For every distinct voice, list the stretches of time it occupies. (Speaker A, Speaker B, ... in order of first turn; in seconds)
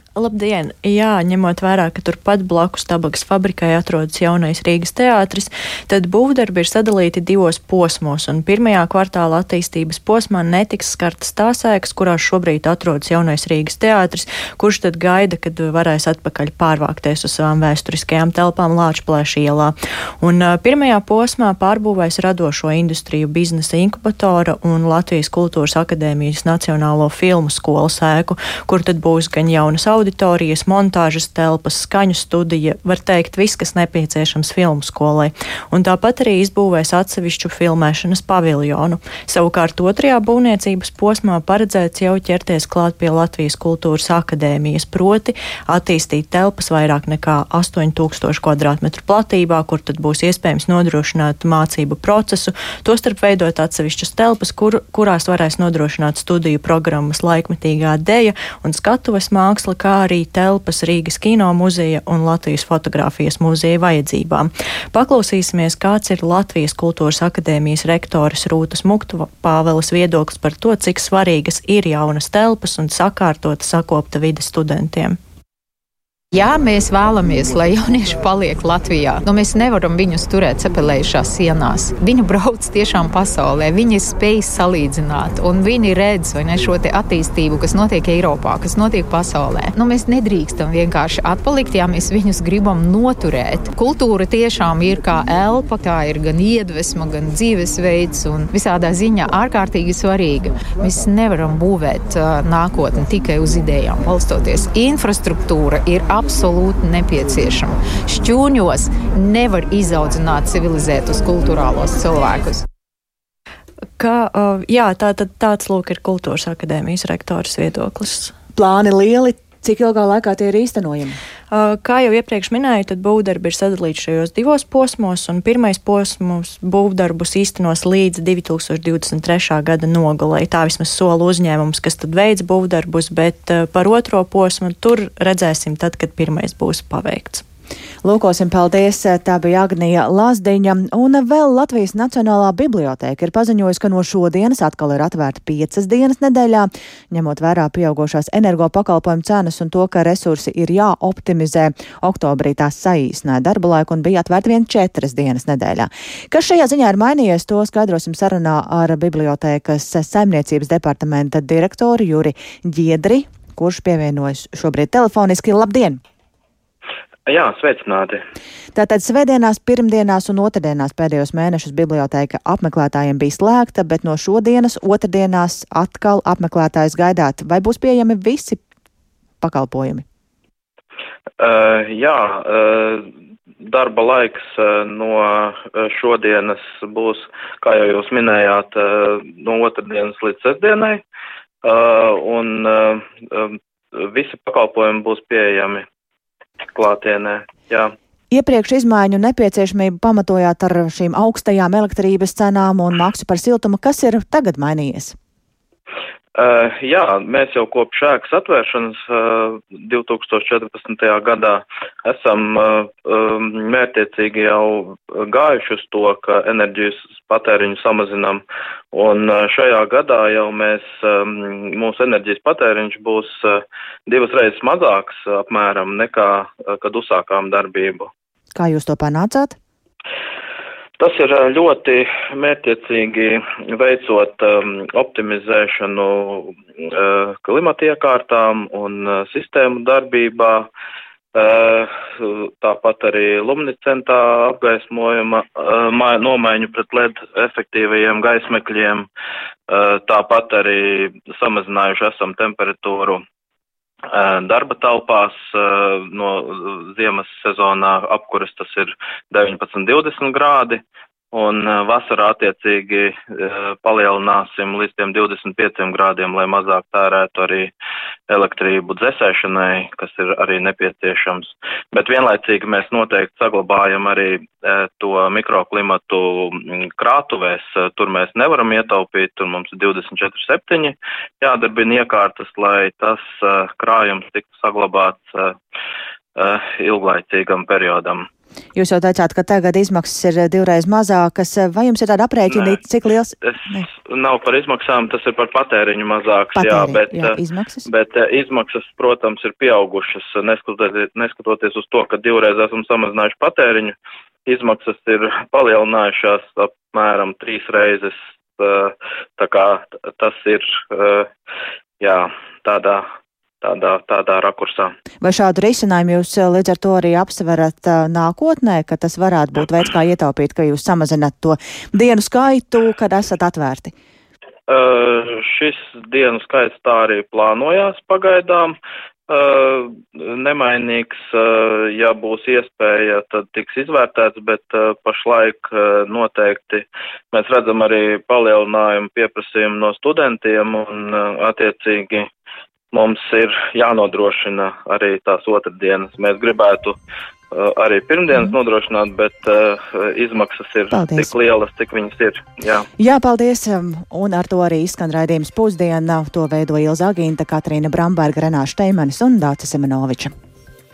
Speaker A: 0.1-75.2, 114.0-118.3, 121.5-137.4
Speaker B: 76.3-112.6
Speaker C: 118.5-121.2, 138.0-166.0, 168.7-178.6, 179.4-180.0, 198.3-205.1, 228.5-229.6, 288.8-293.8, 296.6-297.9, 315.2-323.9, 350.9-351.3, 353.0-360.3
Speaker D: 167.3-168.2, 181.4-183.1, 183.6-191.0, 191.6-195.8, 196.7-197.9, 206.4-218.4, 218.9-228.1, 231.0-240.7, 241.3-249.1, 249.7-253.2, 254.1-267.7, 268.3-285.6, 286.4-288.2, 292.5-292.8, 293.4-303.9, 304.5-311.3, 312.0-313.1, 313.6-314.9, 324.7-328.8, 329.3-342.3, 342.9-346.9, 347.5-352.9